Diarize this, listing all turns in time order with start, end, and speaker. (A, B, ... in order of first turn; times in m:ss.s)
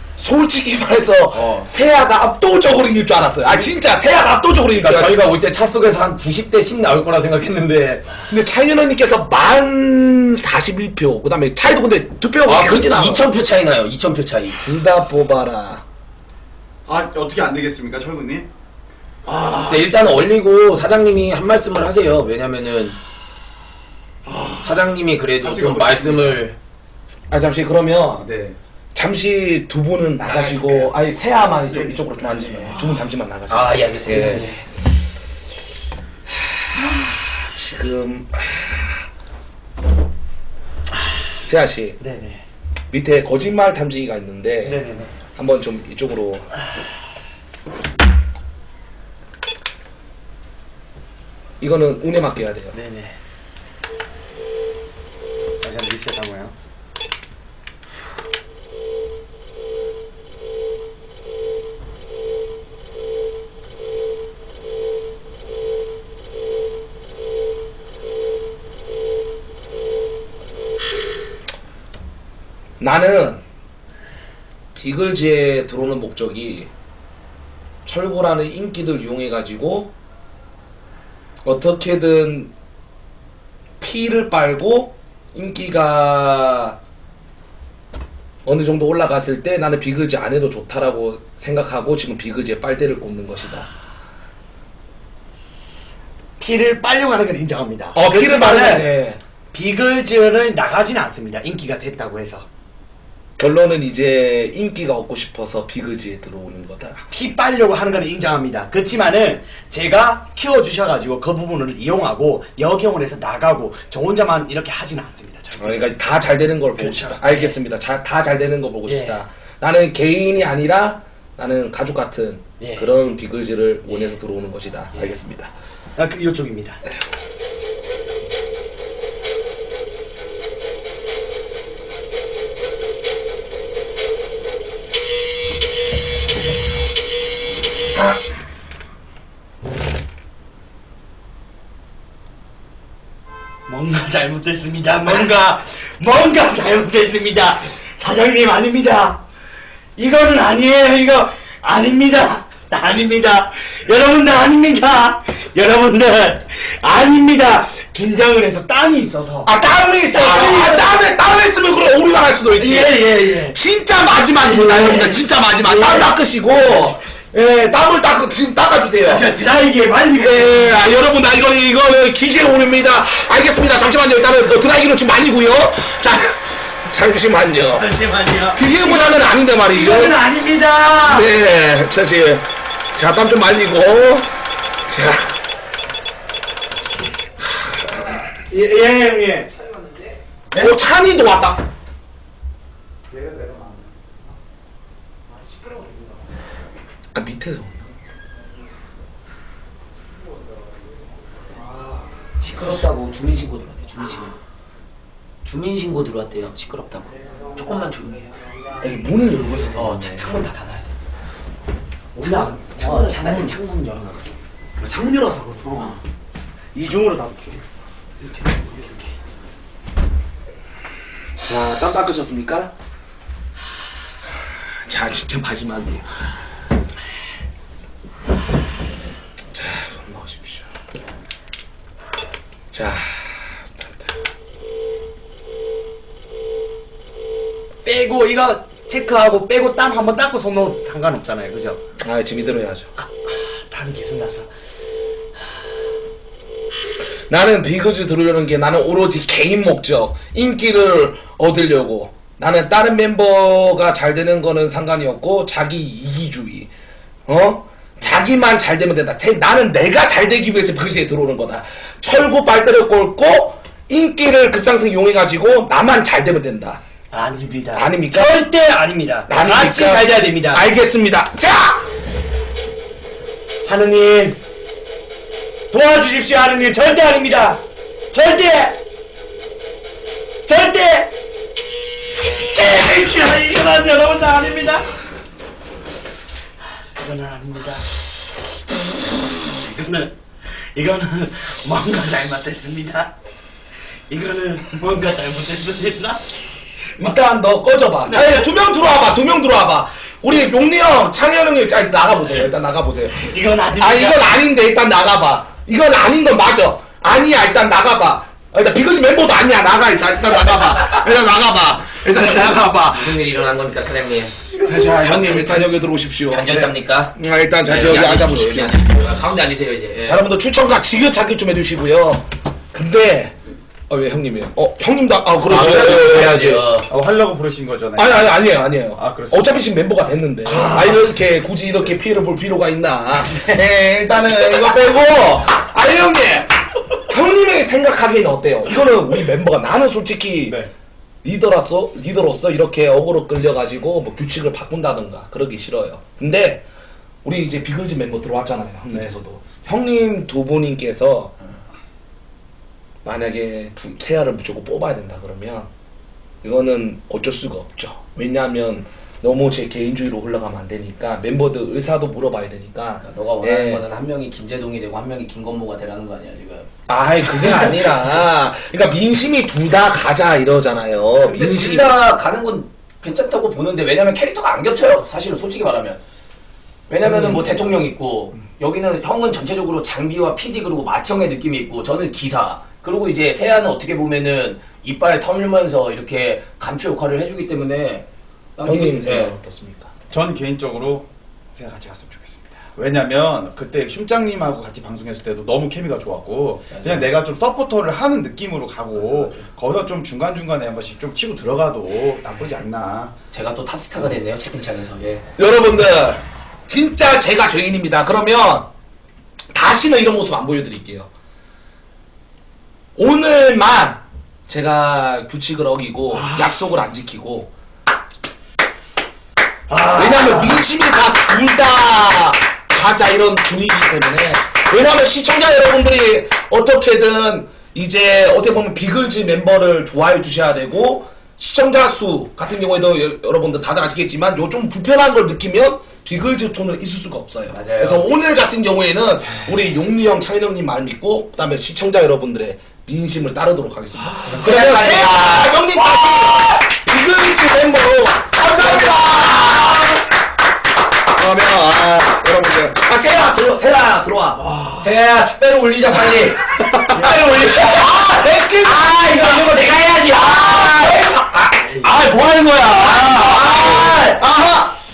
0:00.2-0:05.4 A
0:01.4-0:01.7 B
0:04.7-0:08.2 C
0:08.3-0:13.3 A
0:12.5-0:14.6 C
0:14.6-0:15.8 A
0:16.9-0:18.5 B
0:19.3-0:19.8 B
0:19.6-0:23.0 C
0:24.3-0:24.8 B
0:24.5-0:26.6 C
0:25.4-0:26.4 B
0:27.3-0:28.3 A
0:28.2-0:28.6 B
0:29.0-0:34.4 A
0:30.2-0:30.9 C
0:33.5-0:34.5 C
0:34.1-0:34.6 D
0:36.8-0:39.0 A
0:41.4-0:42.0 A
0:42.0-0:42.4 D
0:42.9-0:44.8 A
0:44.6-0:45.1 D
0:45.4-0:46.5 A
0:51.6-0:52.7 A
0:52.7-0:53.2 D
0:55.6-0:56.5 D
1:12.8-1:13.4 A
1:14.7-1:16.7 A
1:17.9-1:19.9 A
1:21.4-1:22.5 A
1:23.8-1:26.8 A
1:28.5-1:33.7 A
1:36.4-1:38.9 D
1:38.0-1:39.2 A
1:39.5-1:42.5 D
1:43.4-1:47.0 A
1:47.1-1:56.0 D
1:55.6-2:05.5 A
1:56.8-1:57.6 D
1:58.9-1:59.2 D
2:02.6-2:02.9 D
2:06.0-2:06.8 D
2:23.7-2:29.2 D
2:30.0-2:39.5 D
2:39.4-2:49.3 A
2:40.1-2:41.0 D
2:42.5-2:43.6 D
2:44.4-2:47.0 D
2:49.0-2:50.8 D
2:50.2-2:57.9 A
2:57.7-3:01.3 D
2:58.5-3:00.2 A
3:01.0-3:04.3 A
3:04.9-3:05.4 A
3:08.5-3:09.7 D
3:10.5-3:11.6 A
3:13.1-3:13.9 B
3:17.1-3:17.8 A
3:22.4-3:24.4 C
3:25.4-3:28.3 C
3:28.8-3:30.3 A
3:29.7-3:30.9 C
3:32.2-3:33.5 D
3:32.2-3:34.4 C
3:32.8-3:33.5 A
3:34.8-3:35.9 A
3:35.6-3:35.9 C
3:36.8-3:37.6 D
3:38.3-3:39.1 D
3:41.4-3:42.7 A
3:44.8-3:46.1 A
3:49.5-3:50.7 A
3:52.7-3:54.1 A
3:57.8-4:01.8 D
4:02.0-4:02.9 A
4:03.0-4:04.5 D
4:07.3-4:16.7 A
4:17.3-4:26.8 A
4:27.1-4:30.7 D
4:27.7-4:28.5 A
4:29.3-4:31.8 A
4:33.6-4:34.4 D
4:35.7-4:38.8 D
4:40.4-4:41.1 D
4:42.5-4:44.8 D
4:47.0-4:47.9 D
4:49.4-4:50.2 D
4:50.8-4:53.1 D
4:54.1-4:56.3 D
4:57.0-5:13.1 A
4:58.1-4:58.5 D
5:03.2-5:04.4 D
5:12.1-5:15.7 C
5:14.6-5:18.8 A
5:16.3-5:17.1 C
5:17.6-5:20.2 C
5:20.0-5:23.4 A
5:23.9-5:26.7 A
5:25.4-5:26.9 C
5:26.9-5:28.4 B
5:28.0-5:36.5 A
5:29.0-5:29.6 B
5:30.5-5:30.8 D
5:37.1-5:40.6 A
5:40.5-5:40.7 B
5:41.2-5:46.6 A
5:47.2-5:51.4 A
5:53.0-5:55.7 A
5:56.4-6:03.8 A
6:03.0-6:06.7 C
6:06.9-6:12.0 A
6:11.2-6:16.0 C
6:16.9-6:29.4 C
6:17.0-6:17.6 A
6:28.6-6:29.9 A
6:30.1-6:43.1 B
6:36.7-6:37.1 C
6:43.3-6:45.2 C
6:45.4-6:48.7 A
6:49.5-6:51.1 A
6:53.0-6:57.5 A
6:59.9-7:30.0 A
7:17.5-7:18.0 C
7:24.2-7:25.7 C
7:28.5-7:29.7 C
7:31.1-7:34.4 A
7:34.5-7:42.1 C
7:36.9-7:39.6 A
7:36.9-7:37.8 D
7:40.1-7:41.8 A
7:41.8-7:44.2 D
7:42.6-7:44.2 A
7:42.8-7:44.1 C
7:44.2-7:44.7 B